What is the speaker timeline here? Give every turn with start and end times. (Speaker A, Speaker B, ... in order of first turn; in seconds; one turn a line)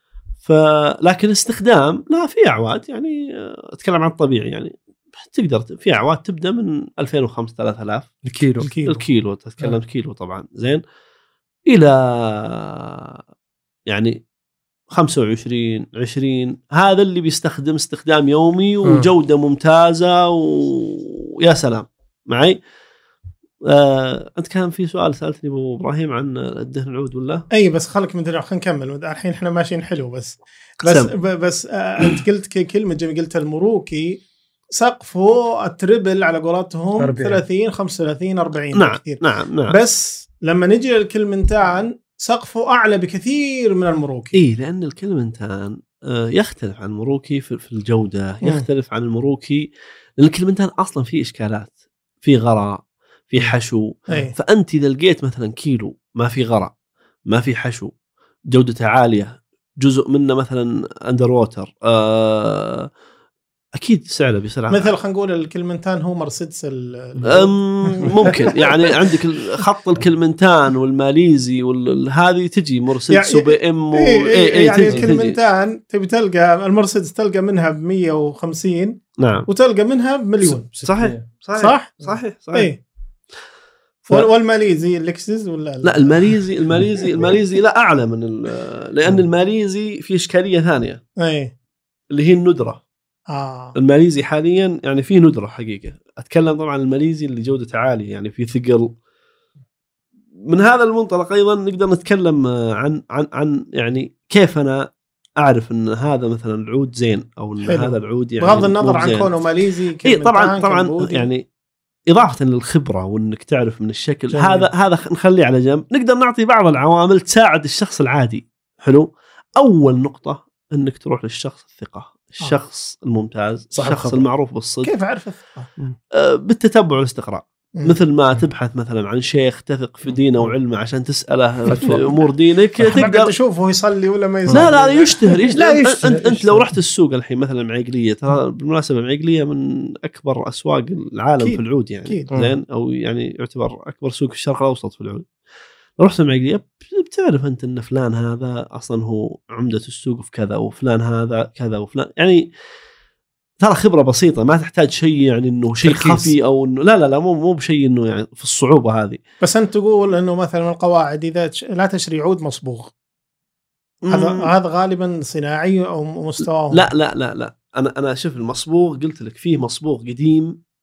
Speaker A: 0.4-8.1
Speaker B: 8.2-8.7
Speaker C: 8.6-9.0
Speaker A: 8.8-10.8
Speaker A: 11.7-13.2
Speaker A: 13.9-14.2
Speaker A: 14.9-22.6
Speaker A: 23.7-27.4
Speaker C: 27.5-34.2
Speaker A: 30.8-31.1
Speaker C: 34.7-44.4
Speaker B: 37.0-37.4
Speaker A: 38.7-39.7
Speaker A: 44.3-56.7
Speaker A: 57.3-57.9
Speaker A: 58.5-62.9
Speaker A: 63.7-64.9
Speaker C: 64.7-69.1
Speaker A: 67.2-75.4
Speaker C: 73.1-80.7
Speaker A: 79.2-79.5
Speaker B: 80.7-81.2
Speaker A: 80.8-82.7
Speaker C: 81.5-81.9
Speaker C: 82.5-82.8
Speaker C: 84.1-86.3
Speaker A: 85.8-91.0
Speaker C: 91.2-91.5
Speaker A: 92.1-92.8
Speaker C: 93.3-93.7
Speaker A: 93.7-98.9
Speaker A: 100.5-104.9
Speaker A: 105.4-109.3
Speaker C: 107.6-111.3
Speaker A: 110.0-111.5
Speaker A: 112.1-124.9
Speaker C: 114.3-114.7
Speaker B: 123.7-124.2
Speaker C: 124.8-125.7
Speaker A: 126.1-133.3
Speaker B: 131.7-132.2
Speaker C: 132.9-135.3
Speaker A: 134.5-145.3
Speaker B: 135.3-136.7
Speaker C: 141.4-142.3
Speaker A: 146.0-152.5
Speaker A: 153.6-159.2
Speaker B: 155.8-156.3
Speaker C: 159.4-162.9
Speaker A: 164.0-164.5
Speaker C: 164.1-166.9
Speaker A: 166.7-170.6